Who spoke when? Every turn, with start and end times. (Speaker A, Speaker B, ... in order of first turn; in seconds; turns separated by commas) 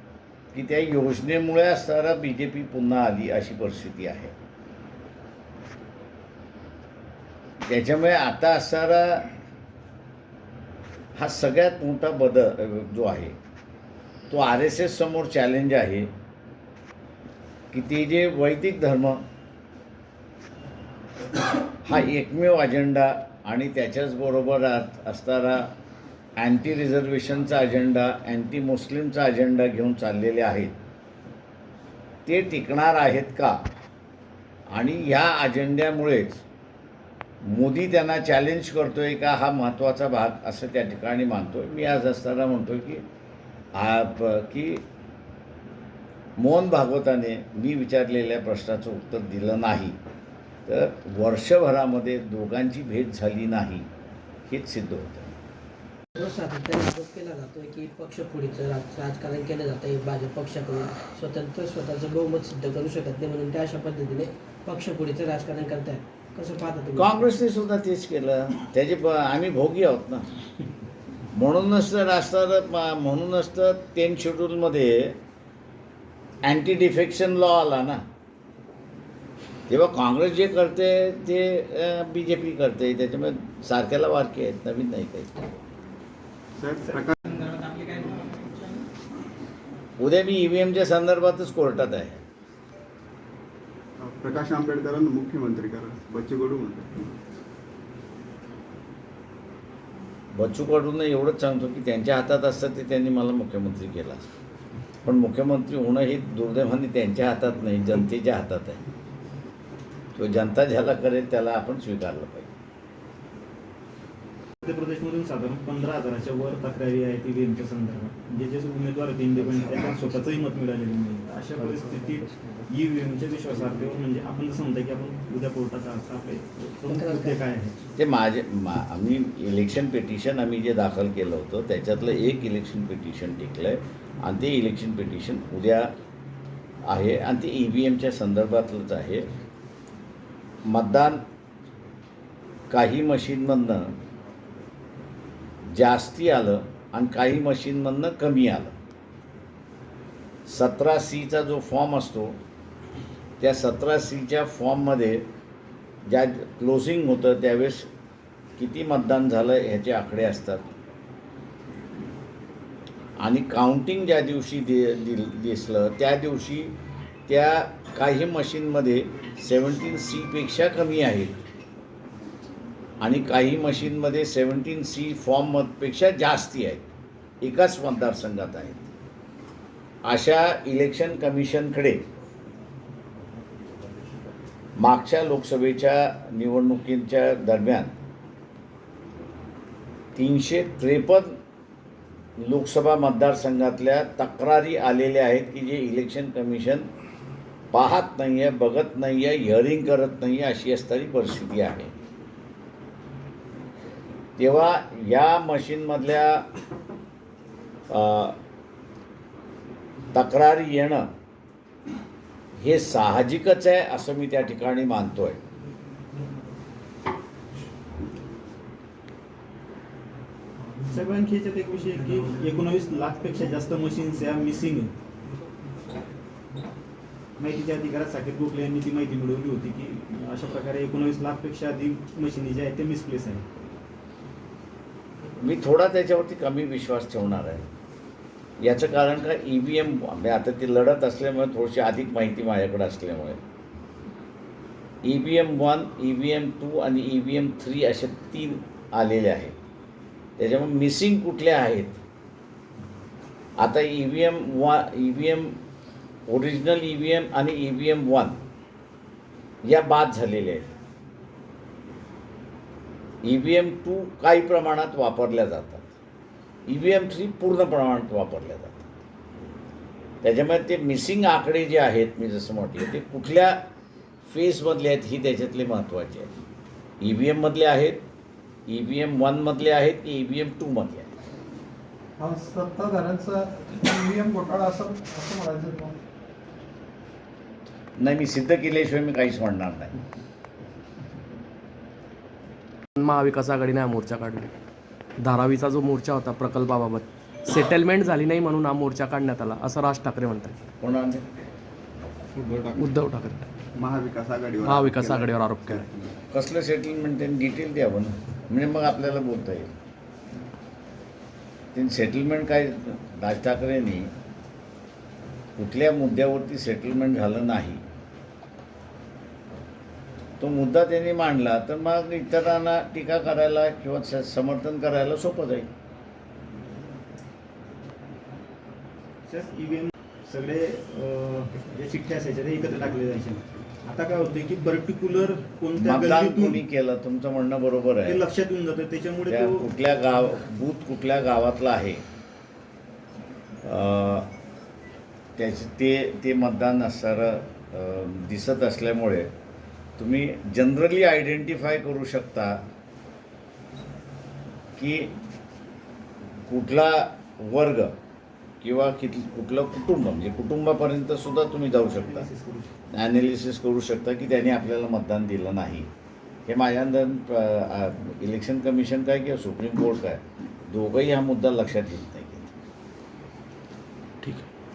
Speaker A: 0.5-4.3, Speaker A: 7.7-9.3, Speaker A: 11.1-13.3, Speaker A: 14.3-16.1, Speaker A: 17.7-19.2, Speaker A: 21.8-25.7, Speaker A: 26.4-30.7, Speaker A: 32.2-33.6, Speaker A: 34.7-36.4, Speaker A: 37.4-43.0, Speaker A: 43.7-44.8, Speaker A: 46.4-50.0, Speaker A: 50.7-53.9, Speaker A: 54.5-55.3, Speaker B: 56.1-67.3, Speaker A: 67.0-70.3, Speaker A: 71.3-75.2, Speaker A: 76.4-78.0, Speaker A: 79.7-85.4, Speaker C: 86.6-87.2, Speaker A: 90.0-92.2, Speaker C: 94.0-97.1, Speaker A: 100.3-104.2, Speaker A: 105.0-108.8, Speaker A: 110.2-112.5, Speaker D: 114.6-127.8, Speaker B: 126.9-127.4, Speaker A: 128.0-135.9, Speaker A: 136.8-139.3, Speaker A: 140.7-141.2, Speaker A: 142.7-143.9, Speaker A: 145.6-148.7, Speaker A: 150.5-152.4, Speaker A: 153.4-155.2, Speaker A: 156.1-157.9, Speaker A: 158.6-160.7, Speaker A: 163.2-166.7, Speaker A: 167.3-171.4, Speaker A: 173.0-176.8, Speaker A: 177.4-178.9, Speaker A: 180.1-182.0, Speaker A: 184.8-187.9, Speaker A: 190.2-191.4, Speaker A: 192.4-196.9, Speaker A: 197.7-201.9, Speaker A: 204.4-206.4, Speaker A: 207.9-208.4, Speaker A: 210.1-211.1, Speaker A: 212.6-215.4, Speaker D: 220.9-224.9, Speaker D: 227.4-233.4, Speaker A: 235.4-237.7, Speaker A: 238.6-243.4, Speaker A: 245.0-249.5, Speaker A: 250.4-252.0, Speaker A: 253.6-255.6, Speaker A: 256.3-258.4, Speaker A: 259.6-260.7, Speaker A: 263.2-265.9, Speaker A: 266.7-268.9, Speaker A: 270.2-273.6, Speaker A: 274.2-276.3, Speaker A: 277.0-278.0, Speaker A: 278.7-281.1, Speaker E: 282.2-286.0, Speaker A: 288.0-290.0, Speaker F: 292.9-294.5, Speaker F: 295.2-300.6, Speaker A: 300.8-301.3, Speaker C: 302.4-302.8, Speaker F: 302.7-303.4, Speaker C: 303.8-306.1, Speaker F: 304.6-305.9, Speaker A: 306.3-309.7, Speaker A: 311.7-314.1, Speaker A: 315.6-317.8, Speaker A: 320.4-325.7, Speaker D: 329.2-336.6, Speaker A: 335.8-338.2, Speaker D: 338.0-339.7, Speaker A: 339.3-342.0, Speaker A: 343.6-344.3, Speaker A: 345.4-349.3, Speaker A: 350.0-352.6, Speaker A: 354.8-355.1, Speaker A: 356.5-357.9, Speaker A: 358.6-362.3, Speaker D: 361.9-362.7, Speaker A: 362.9-365.9, Speaker A: 366.5-372.5